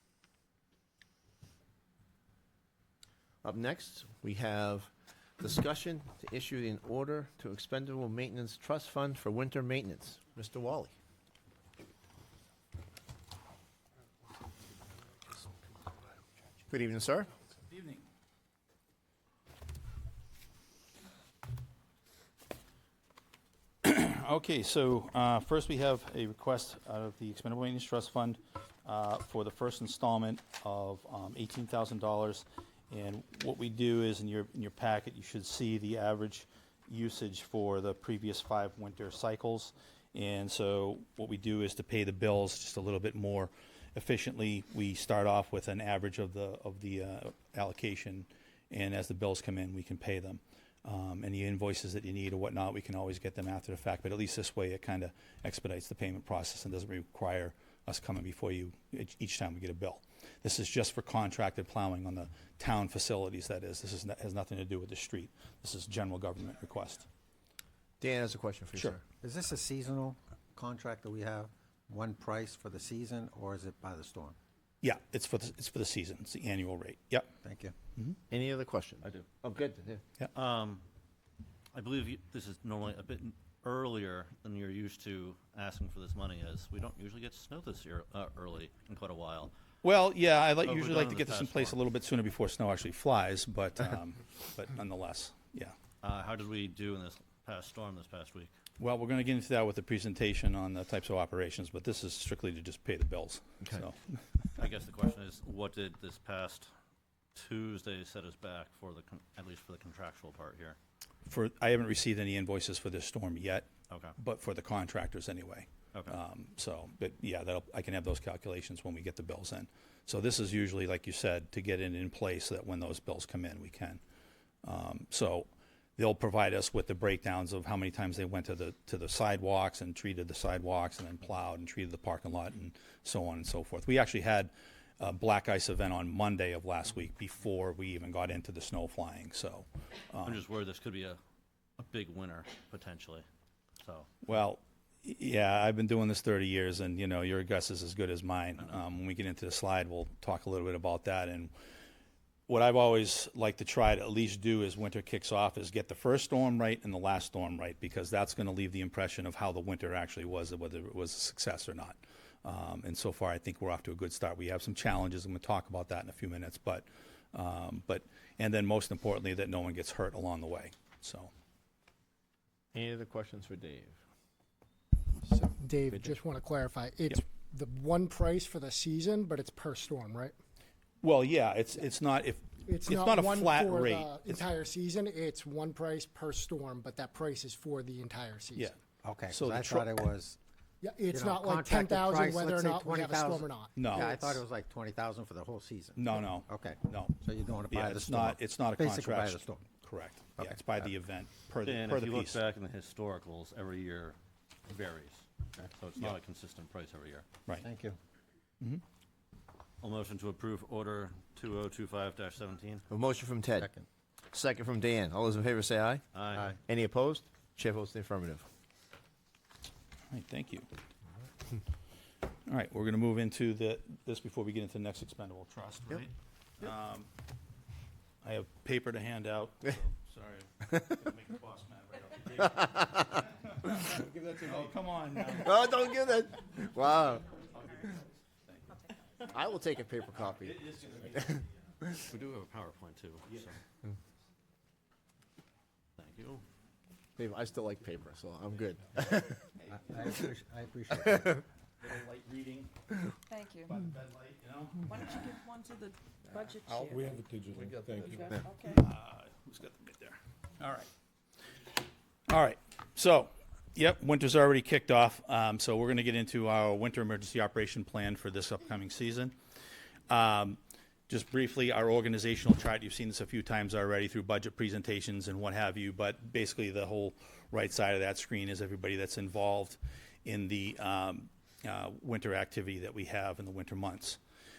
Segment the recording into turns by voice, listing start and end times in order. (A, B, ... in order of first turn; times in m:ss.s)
0:03.4-0:10.9 A
0:16.7-0:17.3 A
0:17.7-0:18.0 B
0:23.8-1:07.1 B
1:08.0-1:09.0 A
1:08.7-1:09.0 B
1:09.2-1:14.4 C
1:14.8-1:17.3 B
1:17.4-1:17.7 C
1:18.3-1:20.0 A
1:20.3-1:20.8 D
1:21.7-1:29.5 D
1:29.8-1:35.7 B
1:30.6-1:31.8 D
1:36.0-1:38.5 D
1:38.8-1:44.0 B
1:44.6-1:46.7 D
1:47.3-1:50.8 D
1:51.2-2:04.0 B
1:53.9-1:54.1 D
2:04.6-2:20.4 B
2:20.2-2:21.2 D
2:21.8-2:23.2 D
2:23.8-2:24.1 D
2:24.2-2:31.5 B
2:32.5-2:51.3 B
2:52.7-2:54.0 A
2:55.3-3:00.3 E
3:01.0-3:04.4 B
3:02.6-3:08.7 E
3:09.0-3:10.4 C
3:09.3-3:09.9 B
3:10.8-3:14.4 E
3:11.1-3:19.7 C
3:13.8-3:14.1 B
3:16.0-3:22.4 B
3:20.4-3:20.8 C
3:21.6-3:27.2 D
3:27.6-3:28.0 C
3:29.8-3:32.8 D
3:32.9-3:33.7 A
3:33.6-3:33.8 C
3:34.3-3:36.0 A
3:36.1-3:36.6 D
3:36.3-3:36.6 C
3:36.6-3:38.5 A
3:40.1-3:40.6 B
3:42.5-3:47.1 B
3:48.2-3:56.2 B
3:52.5-3:53.0 A
3:54.0-3:54.8 F
3:55.4-3:57.3 A
3:57.3-3:57.9 B
3:57.6-3:57.9 G
3:58.4-3:58.8 B
3:58.7-3:59.6 G
3:59.3-4:00.6 A
4:00.1-4:01.7 B
4:01.1-4:01.4 A
4:02.1-4:03.6 D
4:06.0-4:06.4 D
4:07.2-4:09.2 A
4:09.6-4:10.2 B
4:09.7-4:11.4 C
4:11.8-4:12.7 B
4:13.3-4:13.7 G
4:13.6-4:15.4 B
4:14.9-4:17.2 G
4:16.4-4:18.3 F
4:17.8-4:18.9 G
4:18.7-4:20.9 B
4:22.3-4:29.3 B
4:30.1-4:44.2 B